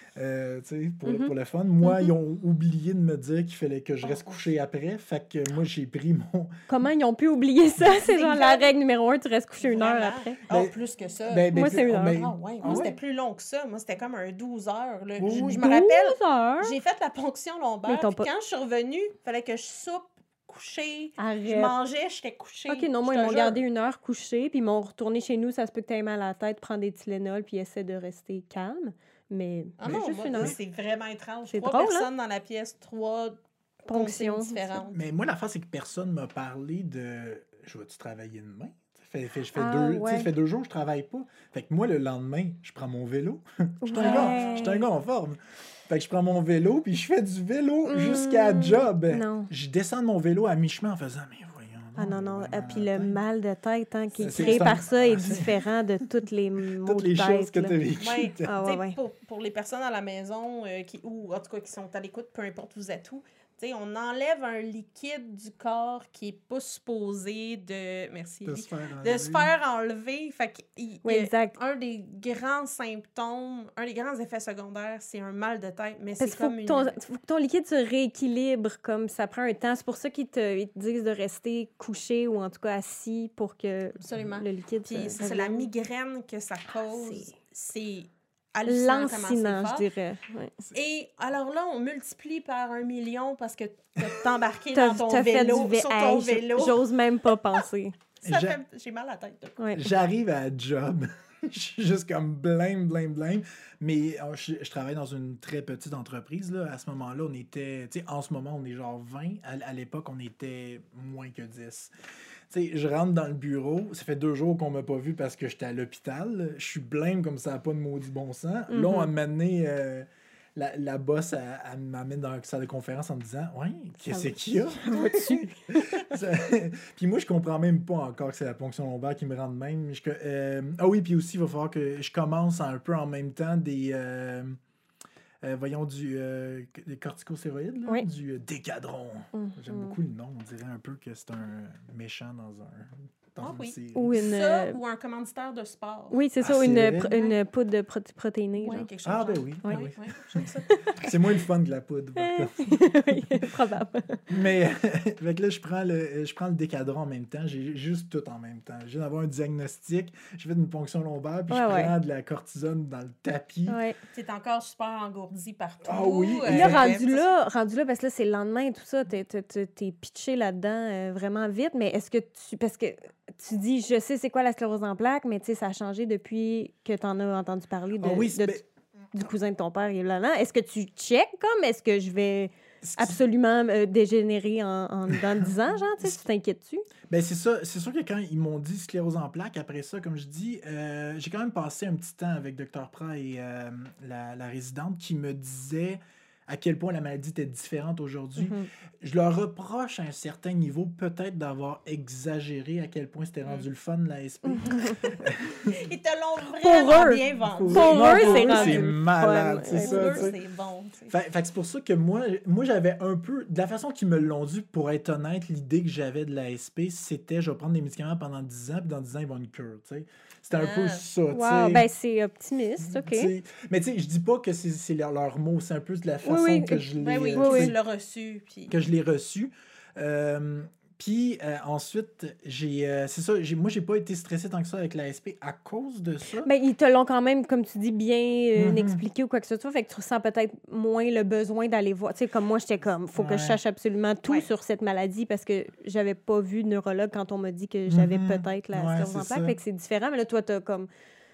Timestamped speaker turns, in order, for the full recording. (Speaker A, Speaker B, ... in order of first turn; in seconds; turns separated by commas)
Speaker A: 0.1-6.6, Speaker B: 1.1-1.3, Speaker B: 1.8-2.1, Speaker C: 4.0-4.5, Speaker B: 6.7-10.4, Speaker C: 7.8-8.7, Speaker C: 9.6-23.6, Speaker A: 10.5-10.7, Speaker A: 11.3-12.9, Speaker B: 11.5-12.9, Speaker A: 15.2-15.6, Speaker B: 15.3-16.7, Speaker B: 17.9-18.3, Speaker B: 21.2-21.7, Speaker B: 22.7-30.6, Speaker C: 29.8-35.0, Speaker A: 29.9-30.6, Speaker B: 31.5-32.1, Speaker B: 33.9-34.8, Speaker A: 34.9-53.2, Speaker B: 39.5-40.3, Speaker B: 43.8-44.8, Speaker C: 43.9-44.8, Speaker B: 47.9-49.5, Speaker B: 52.0-57.7, Speaker A: 54.2-55.7, Speaker C: 54.4-54.7, Speaker A: 56.8-58.5, Speaker C: 58.0-76.9, Speaker B: 58.4-59.0, Speaker A: 68.4-69.5, Speaker B: 71.0-71.5, Speaker B: 76.2-85.7, Speaker C: 84.0-89.9, Speaker B: 86.9-87.3, Speaker B: 88.7-90.5, Speaker C: 90.7-96.9, Speaker B: 94.7-98.0, Speaker A: 98.2-98.6, Speaker C: 98.2-99.6, Speaker B: 99.6-99.8, Speaker A: 99.7-111.9, Speaker A: 112.5-134.6, Speaker B: 118.7-119.1, Speaker B: 124.1-126.0, Speaker A: 135.4-144.1, Speaker B: 139.3-139.9, Speaker C: 143.4-146.2, Speaker B: 143.9-144.8, Speaker B: 146.1-148.9, Speaker A: 146.4-147.1, Speaker C: 148.6-151.1, Speaker A: 149.0-153.5, Speaker B: 150.6-151.1, Speaker B: 152.2-154.2, Speaker A: 154.3-163.8, Speaker B: 161.5-161.9, Speaker B: 163.7-163.9, Speaker C: 164.1-167.3, Speaker A: 165.8-166.9, Speaker B: 166.5-178.6, Speaker A: 178.0-178.6, Speaker B: 179.1-186.8, Speaker A: 182.8-183.2, Speaker A: 185.1-185.5, Speaker A: 187.1-205.9, Speaker B: 198.4-198.7, Speaker B: 204.4-205.2, Speaker C: 205.7-208.9, Speaker B: 206.5-210.3, Speaker A: 207.3-210.3, Speaker C: 209.7-211.1, Speaker A: 211.1-221.9, Speaker C: 220.5-221.0, Speaker B: 221.3-223.3, Speaker A: 222.8-227.8, Speaker B: 226.2-227.7, Speaker C: 227.0-228.7, Speaker A: 228.7-236.5, Speaker B: 236.4-250.9, Speaker A: 238.6-239.0, Speaker A: 243.1-243.6, Speaker A: 247.9-249.6